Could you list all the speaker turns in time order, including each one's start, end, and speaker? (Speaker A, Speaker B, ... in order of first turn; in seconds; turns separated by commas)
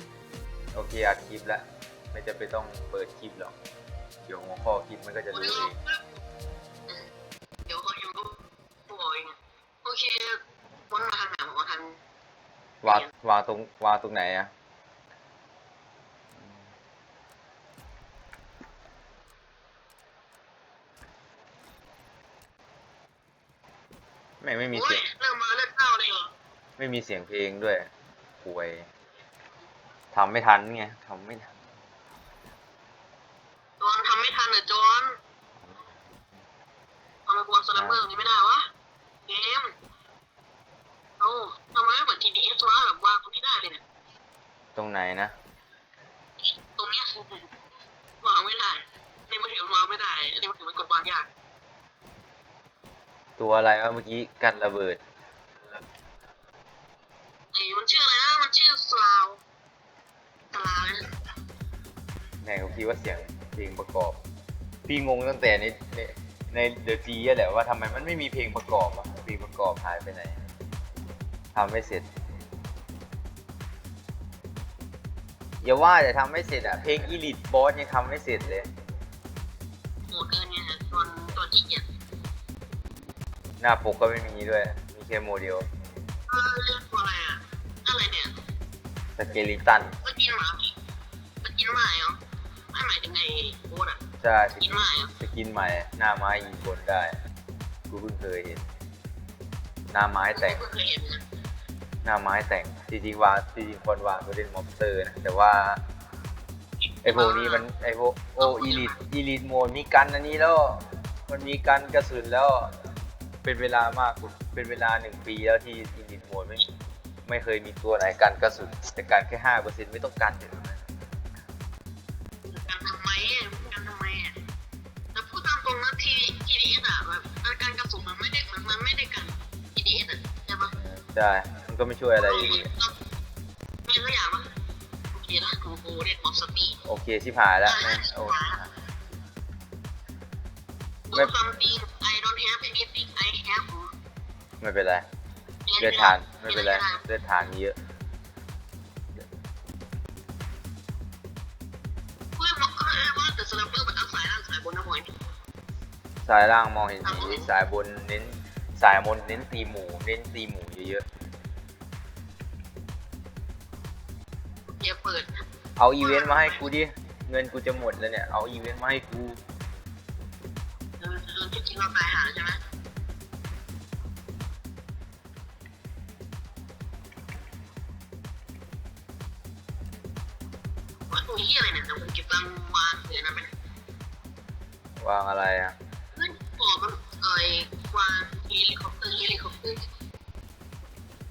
Speaker A: 0.7-3.5, Speaker A: 4.2-5.8, Speaker B: 5.3-6.2, Speaker B: 7.7-12.0, Speaker A: 12.8-14.5, Speaker B: 12.8-13.1, Speaker A: 24.4-25.0, Speaker B: 24.7-26.3, Speaker A: 26.8-27.9, Speaker A: 28.4-28.9, Speaker A: 30.1-31.6, Speaker B: 33.8-35.2, Speaker B: 37.3-38.7, Speaker A: 37.8-38.0, Speaker B: 39.3-39.7, Speaker B: 41.2-43.8, Speaker A: 44.8-45.3, Speaker B: 46.6-47.5, Speaker B: 48.2-51.3, Speaker A: 53.4-55.0, Speaker B: 57.5-59.4, Speaker B: 60.5-61.0, Speaker A: 62.4-64.2, Speaker A: 64.9-70.4, Speaker A: 71.5-72.0, Speaker A: 75.6-78.7, Speaker B: 80.1-81.8, Speaker A: 83.6-85.7, Speaker B: 86.3-88.3, Speaker A: 89.2-90.0, Speaker B: 90.0-90.7, Speaker B: 91.4-92.2, Speaker B: 92.7-94.0, Speaker A: 94.2-97.2, Speaker B: 94.6-95.1, Speaker A: 97.9-98.6, Speaker A: 99.9-100.6, Speaker B: 100.3-101.2, Speaker A: 102.0-105.8, Speaker B: 107.0-107.7, Speaker A: 107.0-112.7, Speaker B: 108.4-109.0, Speaker A: 113.4-116.7, Speaker A: 117.3-120.8, Speaker B: 122.5-124.4, Speaker B: 125.1-130.8, Speaker A: 130.8-132.7, Speaker B: 132.2-133.0, Speaker B: 133.8-134.5, Speaker B: 135.1-136.8, Speaker A: 136.8-138.7, Speaker B: 137.7-138.6, Speaker B: 141.1-143.9, Speaker A: 144.6-145.1, Speaker B: 145.7-147.0, Speaker A: 145.8-147.8, Speaker B: 152.4-155.3, Speaker A: 156.2-161.1, Speaker B: 157.0-157.5, Speaker B: 164.8-165.4, Speaker A: 165.8-169.4, Speaker B: 166.0-166.6, Speaker B: 171.0-172.6, Speaker B: 181.1-183.5, Speaker A: 185.0-185.8, Speaker B: 186.2-189.9